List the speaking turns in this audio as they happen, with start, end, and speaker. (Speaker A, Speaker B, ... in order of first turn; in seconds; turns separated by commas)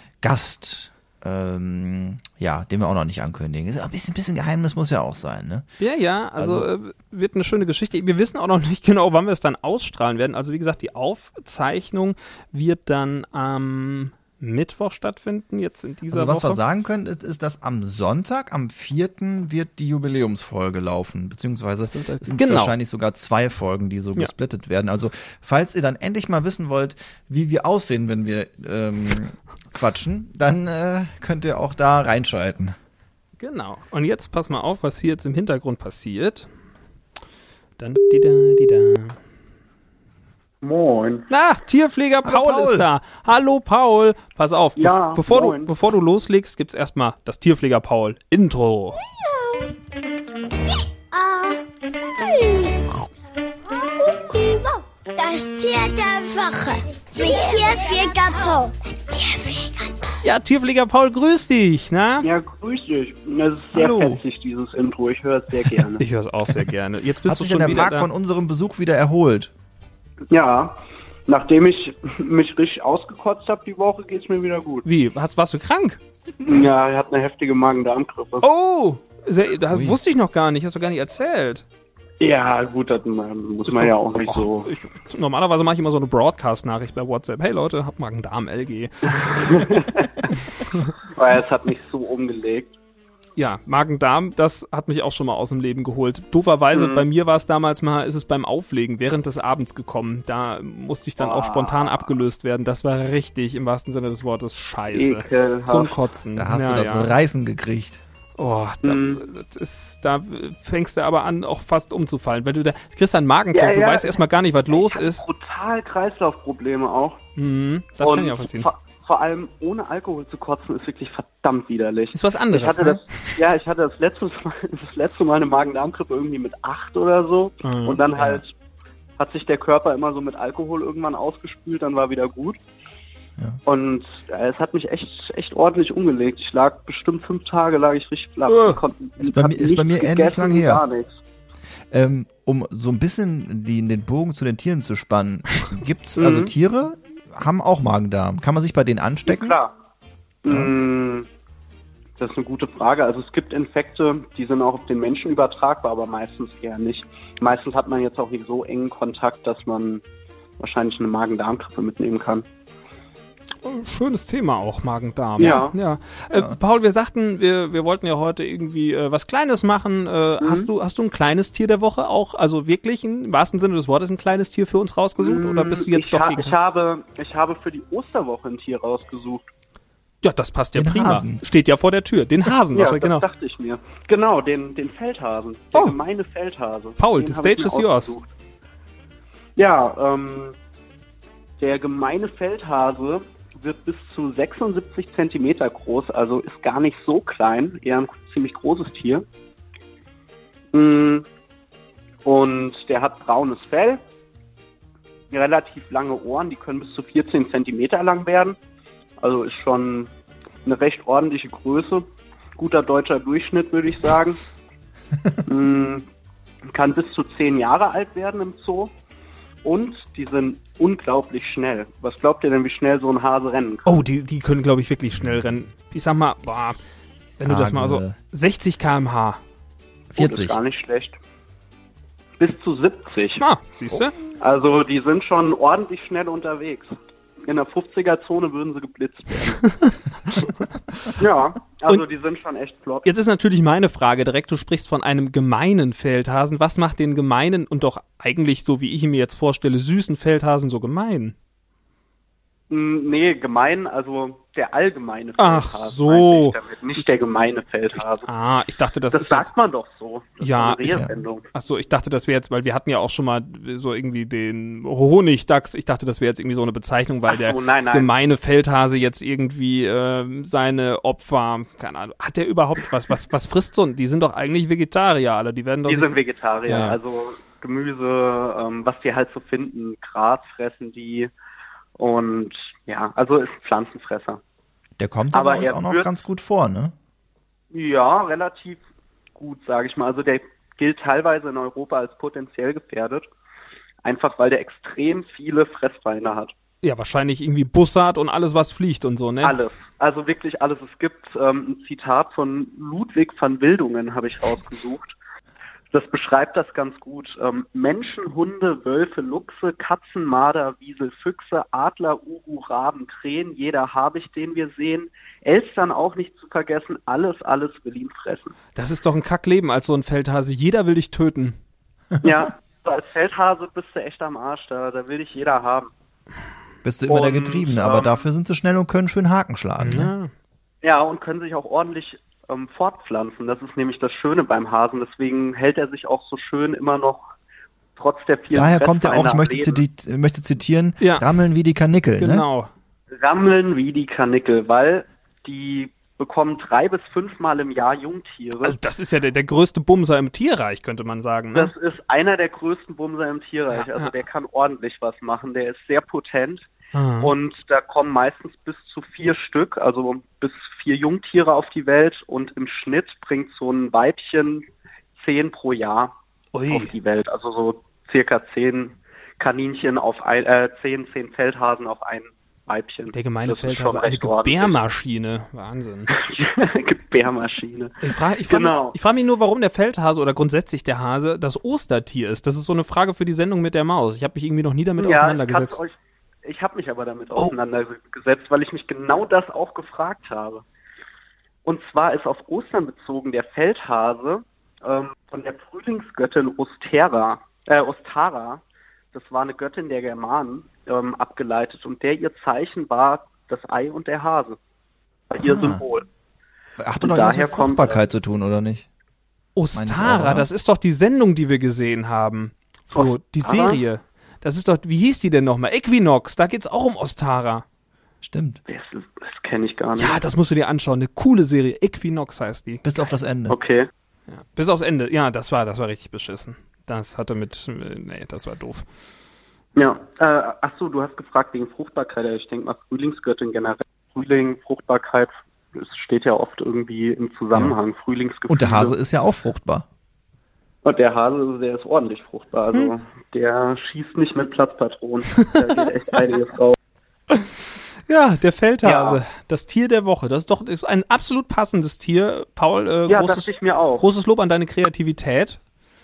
Speaker A: 0.2-5.7, Speaker B: 5.8-16.6, Speaker A: 6.4-6.7, Speaker A: 16.1-32.8, Speaker B: 22.0-22.7, Speaker B: 33.4-36.5, Speaker B: 37.8-39.2, Speaker C: 40.6-41.3, Speaker B: 41.3-49.0, Speaker A: 42.2-42.9, Speaker C: 44.8-45.7, Speaker D: 49.0-49.8, Speaker D: 50.7-53.1, Speaker D: 53.6-60.1, Speaker B: 60.2-62.3, Speaker C: 62.2-66.0, Speaker A: 63.8-64.2, Speaker B: 66.0-68.1, Speaker A: 67.3-69.5, Speaker C: 70.3-74.9, Speaker B: 74.9-76.0, Speaker C: 76.4-78.5, Speaker B: 78.4-81.7, Speaker A: 79.7-80.0, Speaker C: 82.2-84.7, Speaker B: 83.7-89.6, Speaker C: 89.1-90.3, Speaker C: 91.1-92.8, Speaker B: 93.4-107.2, Speaker C: 96.7-97.0, Speaker C: 101.2-102.1, Speaker C: 104.9-106.0, Speaker A: 106.4-108.0, Speaker B: 108.4-115.2, Speaker C: 108.8-109.2, Speaker C: 113.5-114.2, Speaker C: 114.7-117.2, Speaker B: 117.4-118.7, Speaker C: 118.0-128.5, Speaker B: 122.1-123.4, Speaker B: 127.6-128.0, Speaker C: 129.2-132.6, Speaker C: 133.7-141.2, Speaker B: 138.5-138.8, Speaker A: 139.2-140.8, Speaker A: 141.9-149.6, Speaker C: 146.2-146.5, Speaker C: 149.3-149.7, Speaker C: 150.4-151.3, Speaker C: 152.2-160.0, Speaker C: 160.6-162.5, Speaker B: 163.6-176.6, Speaker C: 165.4-165.8, Speaker A: 165.4-165.6, Speaker A: 166.3-166.6, Speaker C: 170.4-170.7, Speaker C: 175.2-179.5, Speaker B: 180.2-183.2, Speaker A: 180.8-181.4, Speaker C: 182.7-188.3, Speaker B: 187.0-188.2, Speaker C: 189.6-190.6, Speaker C: 191.6-199.3, Speaker C: 200.7-201.3, Speaker C: 202.2-204.0, Speaker C: 205.3-208.6, Speaker C: 209.2-210.1, Speaker C: 210.7-214.4, Speaker C: 215.5-216.1, Speaker C: 216.7-218.9, Speaker C: 219.6-224.0, Speaker B: 223.9-226.8, Speaker B: 227.4-229.4, Speaker A: 227.4-228.2, Speaker A: 230.1-230.6, Speaker C: 230.2-231.2, Speaker C: 232.4-233.4, Speaker B: 233.4-234.2, Speaker C: 234.4-236.9, Speaker C: 237.5-239.6, Speaker B: 239.7-240.5, Speaker C: 241.2-243.1, Speaker B: 243.1-251.3, Speaker C: 252.7-258.3, Speaker B: 255.4-256.6, Speaker B: 258.2-259.5, Speaker C: 259.1-261.4, Speaker B: 260.4-276.1, Speaker C: 267.3-268.1, Speaker C: 275.9-281.3, Speaker B: 276.7-277.0, Speaker C: 282.0-284.4, Speaker A: 285.0-286.9, Speaker C: 285.3-286.1, Speaker C: 287.7-288.8, Speaker C: 289.4-293.2, Speaker C: 294.0-296.5, Speaker B: 296.8-299.6, Speaker C: 299.4-305.1, Speaker C: 305.9-318.6, Speaker B: 318.8-321.6, Speaker C: 322.2-325.9, Speaker A: 326.8-330.1, Speaker C: 327.1-328.2, Speaker B: 329.8-330.3, Speaker C: 330.8-337.3, Speaker C: 338.0-339.8, Speaker A: 338.5-342.4, Speaker B: 341.0-341.3, Speaker B: 342.2-342.7, Speaker C: 343.1-348.8, Speaker B: 348.6-351.7, Speaker C: 351.5-366.2, Speaker B: 353.7-354.2, Speaker B: 356.9-357.3, Speaker B: 366.5-366.9, Speaker C: 366.7-374.8, Speaker B: 373.1-376.1, Speaker C: 376.1-379.0, Speaker B: 378.0-385.8, Speaker C: 385.0-390.6, Speaker C: 391.6-404.6, Speaker C: 405.3-406.1, Speaker A: 405.4-405.8, Speaker A: 406.8-408.9, Speaker C: 407.0-408.0, Speaker B: 409.6-417.6, Speaker A: 409.7-410.5, Speaker C: 412.9-413.8, Speaker A: 418.2-418.6, Speaker C: 418.7-420.2, Speaker B: 420.0-422.8, Speaker A: 422.9-423.6, Speaker C: 423.5-423.9, Speaker B: 424.3-428.8, Speaker C: 429.8-439.0, Speaker A: 438.5-439.9, Speaker C: 440.8-446.8, Speaker B: 445.3-445.7, Speaker B: 448.1-455.6, Speaker C: 448.8-449.2, Speaker C: 453.1-454.1